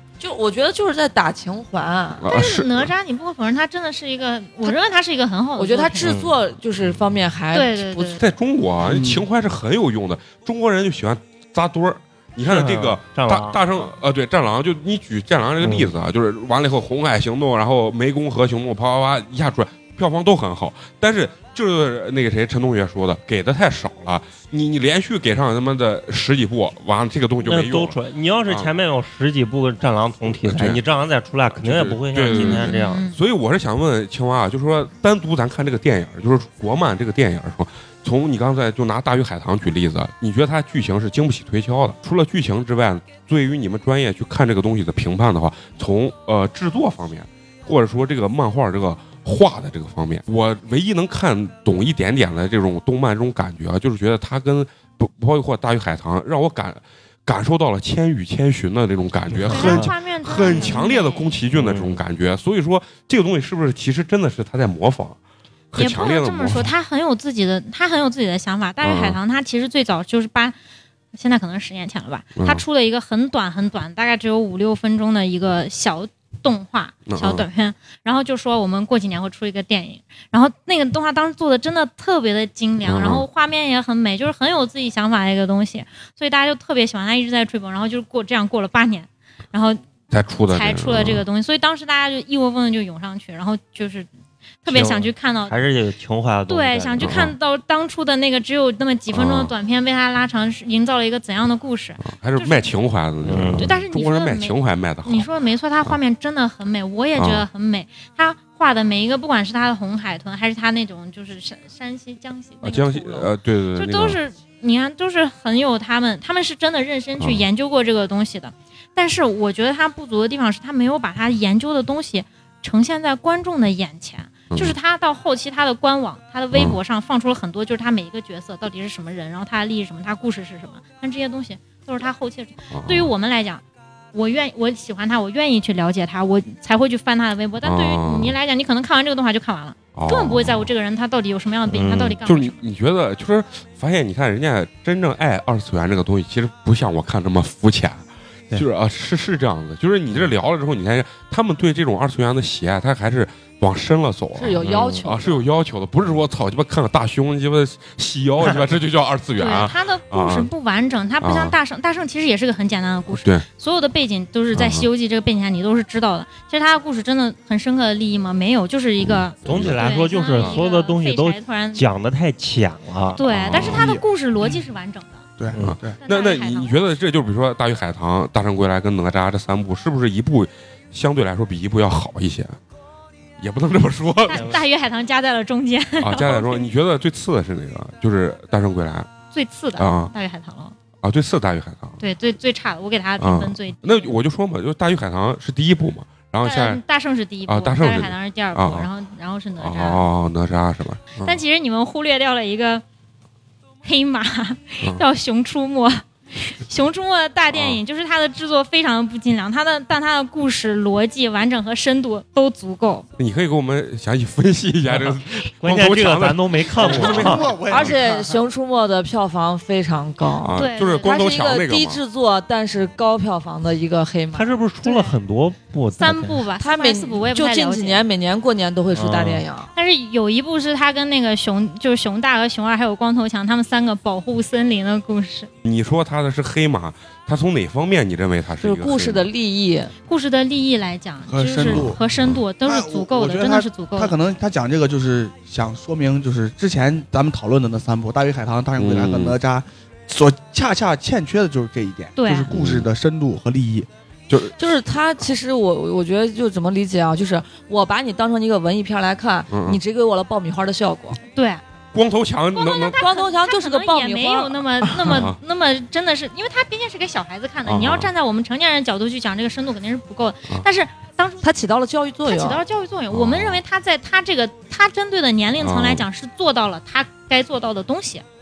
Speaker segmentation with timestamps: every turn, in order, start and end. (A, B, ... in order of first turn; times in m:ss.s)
0:00.2-0:02.2 A
0:02.2-0:02.9 B
0:02.3-0:06.2 C
0:05.6-0:08.2 A
0:06.0-0:06.4 D
0:07.5-0:08.2 C
0:08.2-0:28.7 B
0:08.8-0:09.2 E
0:12.4-0:13.6 D
0:15.6-0:15.9 D
0:27.4-0:33.0 D
0:30.3-0:30.8 B
0:31.5-1:05.2 B
0:32.3-0:33.2 C
0:59.4-0:59.9 D
0:59.5-1:01.4 C
1:01.6-1:02.0 D
1:05.7-1:06.7 B
1:05.7-1:10.5 C
1:08.8-1:09.2 B
1:11.1-1:29.8 C
1:12.4-1:12.6 B
1:17.1-1:17.4 B
1:22.8-1:23.2 B
1:30.1-1:31.2 B
1:30.5-1:34.1 C
1:34.6-1:35.6 C
1:34.7-1:37.2 D
1:36.5-1:42.7 C
1:37.0-1:37.3 B
1:39.1-1:39.5 B
1:42.0-1:45.3 B
1:43.2-1:43.7 D
1:43.6-2:13.6 C
1:47.2-1:47.4 B
1:52.6-1:54.2 B
2:04.5-2:04.8 B
2:06.5-2:06.8 B
2:12.7-2:13.1 B
2:14.1-2:22.6 C
2:17.6-2:18.3 B
2:19.9-2:20.7 B
2:21.6-2:22.2 D
2:22.2-2:40.5 B
2:34.4-2:35.4 A
2:39.4-2:51.8 C
2:41.2-2:41.6 B
2:43.1-2:43.4 B
2:44.5-2:44.9 B
2:49.0-2:50.6 B
2:49.4-2:53.6 D
2:53.2-2:55.2 C
2:53.2-2:53.9 B
2:53.7-2:54.5 E
2:55.4-2:56.0 E
2:55.5-2:55.8 D
2:55.6-3:02.6 B
2:56.0-2:56.8 C
3:03.4-3:04.6 B
3:04.3-3:06.7 C
3:06.0-3:09.1 B
3:09.3-3:10.7 C
3:09.8-3:10.1 B
3:11.0-3:12.0 B
3:12.0-3:14.2 C
3:13.2-3:16.8 B
3:16.4-3:20.0 C
3:17.5-3:18.9 B
3:19.6-3:21.4 B
3:21.2-3:22.8 C
3:23.8-3:33.0 C
3:27.5-3:27.8 B
3:33.2-3:37.8 B
3:34.9-3:37.6 D
3:36.8-3:38.4 E
3:36.8-3:44.6 A
3:40.4-3:42.0 B
3:40.6-3:41.2 C
3:44.3-3:46.5 D
3:44.8-3:45.2 C
3:46.0-3:48.0 C
3:46.6-3:49.7 A
3:48.9-3:49.4 D
3:49.7-3:55.5 C
3:55.6-3:59.2 B
3:58.6-3:59.9 A
4:00.1-4:04.1 C
4:01.3-4:02.0 E
4:01.6-4:02.4 B
4:02.6-4:13.9 E
4:08.8-4:09.3 B
4:12.2-4:12.5 C
4:12.5-4:12.9 B
4:14.3-4:14.6 B
4:14.6-4:21.2 A
4:19.5-4:19.8 B
4:21.3-4:21.6 C
4:21.9-4:23.0 B
4:22.5-4:31.4 C
4:22.9-4:25.2 A
4:25.0-4:25.4 B
4:27.6-4:28.1 B
4:31.4-4:32.6 A
4:32.2-4:38.2 C
4:33.1-4:33.6 B
4:35.6-4:36.0 B